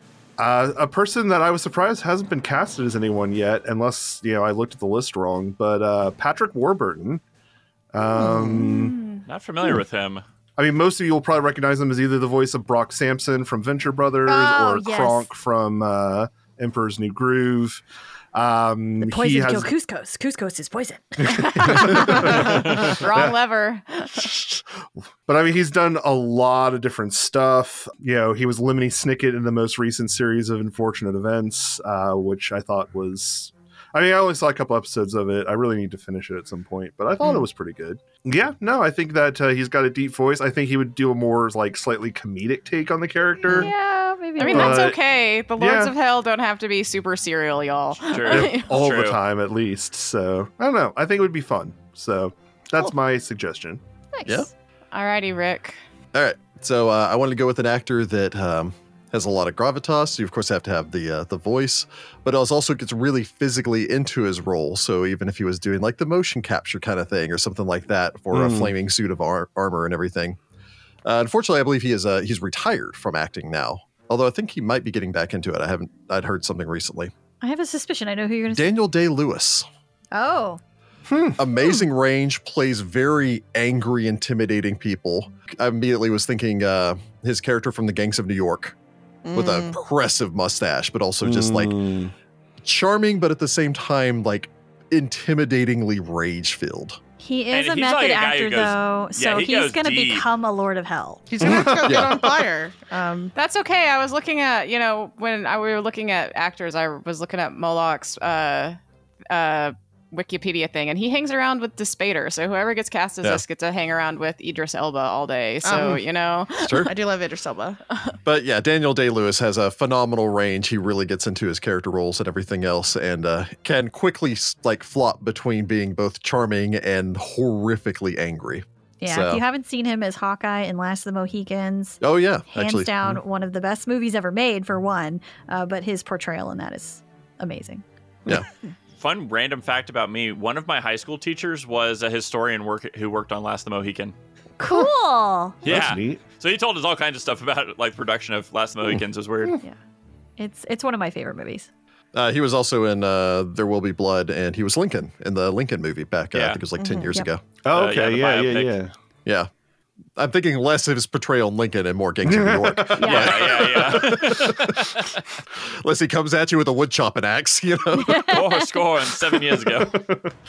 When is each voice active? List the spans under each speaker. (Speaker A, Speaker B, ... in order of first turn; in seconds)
Speaker A: 0.4-7.2, 7.9-9.0, 10.6-19.7, 21.2-23.4, 24.3-24.6, 25.3-43.7, 44.5-45.0, 45.6-45.9, 48.3-53.8, 68.3-68.7, 81.1-81.4, 91.2-92.1, 101.4-102.1, 145.7-146.2, 157.7-158.9, 162.2-163.2, 169.7-170.3
Speaker B: 8.2-9.2, 14.3-15.3, 19.0-22.6, 43.5-44.9, 54.1-54.5, 77.4-78.7, 80.1-80.6, 97.2-101.3, 129.0-137.8, 144.6-145.7, 150.4-151.7, 163.0-163.4, 168.0-168.8
Speaker C: 9.3-10.2, 48.1-49.2, 97.5-100.3, 139.0-144.2, 145.7-149.6, 156.3-156.6, 157.7-158.7, 163.0-165.2, 168.2-170.0
Speaker D: 22.2-24.3, 44.4-48.7, 54.9-55.8, 103.3-108.8, 109.3-116.9
Speaker E: 56.1-70.4, 71.0-77.1, 78.5-79.7, 81.4-88.8, 89.3-91.9, 92.6-97.0, 101.8-102.2, 116.6-116.9, 118.2-129.4, 132.0-133.2, 152.1-157.4, 160.2-164.9, 165.6-168.3
Speaker F: 89.2-89.8, 101.3-103.3, 115.6-116.0, 116.8-117.8, 156.8-157.1